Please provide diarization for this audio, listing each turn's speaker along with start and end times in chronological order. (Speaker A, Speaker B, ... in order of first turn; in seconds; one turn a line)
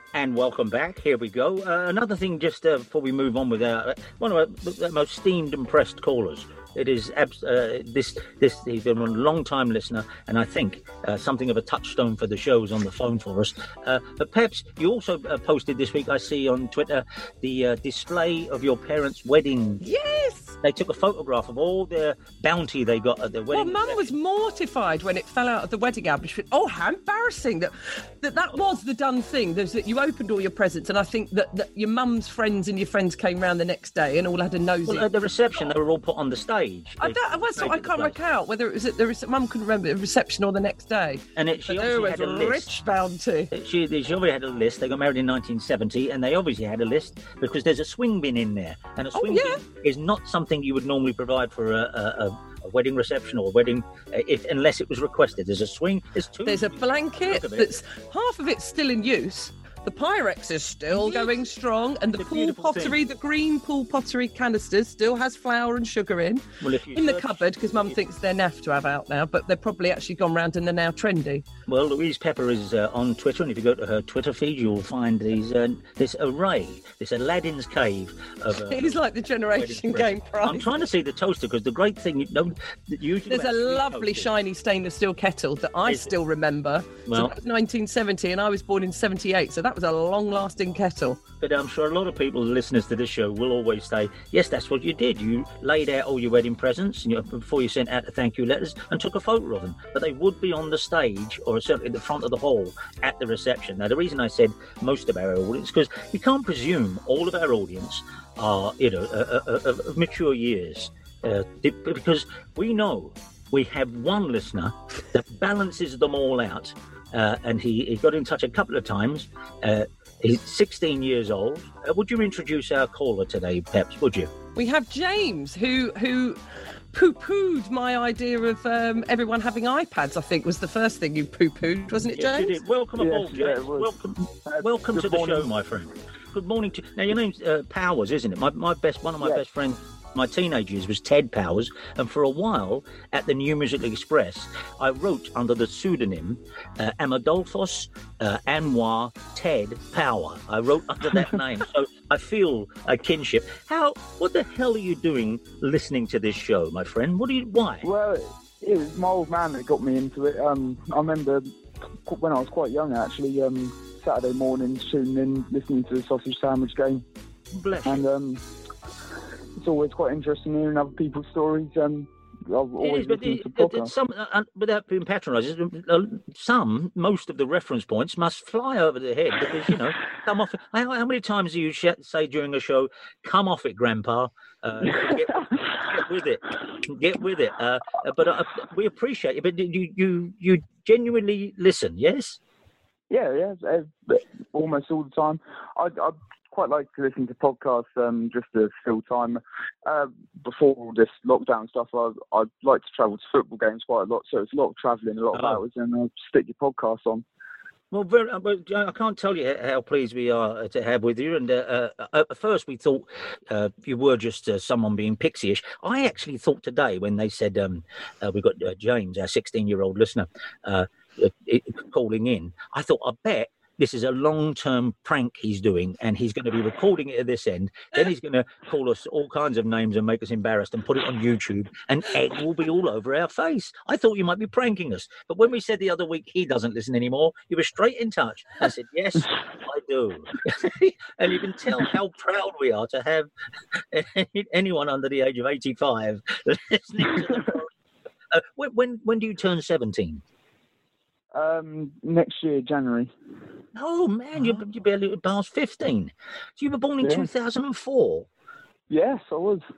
Speaker A: 0.1-19.8
Speaker B: 19.8-20.6
Speaker A: 20.6-24.1
Speaker B: 23.5-35.1
Speaker A: 34.9-38.1
Speaker B: 37.0-43.5
Speaker A: 41.4-42.7
Speaker A: 43.5-57.7
Speaker B: 49.1-49.6
Speaker B: 56.5-66.4
Speaker A: 60.9-61.3
Speaker A: 62.1-63.0
Speaker A: 66.6-68.0
Speaker B: 66.9-71.4
Speaker A: 71.7-84.3
Speaker B: 78.7-80.7
Speaker B: 83.3-91.2
Speaker A: 85.8-86.1
Speaker A: 87.1-87.3
Speaker A: 91.4-124.3
Speaker B: 124.5-126.4
Speaker B: 126.9-132.5
Speaker A: 132.1-157.9
Speaker C: 133.0-133.9
Speaker C: 134.4-135.5
Speaker C: 157.8-161.4
Speaker C: 162.1-167.0
Speaker A: 167.5-168.0
Speaker C: 167.8-168.4
Speaker C: 169.6-173.9
Speaker A: 172.8-192.4
Speaker C: 193.1-207.2
Speaker A: 205.3-205.6
Speaker A: 207.9-243.3
Speaker A: 243.9-247.7
Speaker A: 248.3-250.2
Speaker C: 251.3-253.1
Speaker A: 253.7-258.2
Speaker C: 257.0-257.3
Speaker C: 258.9-259.6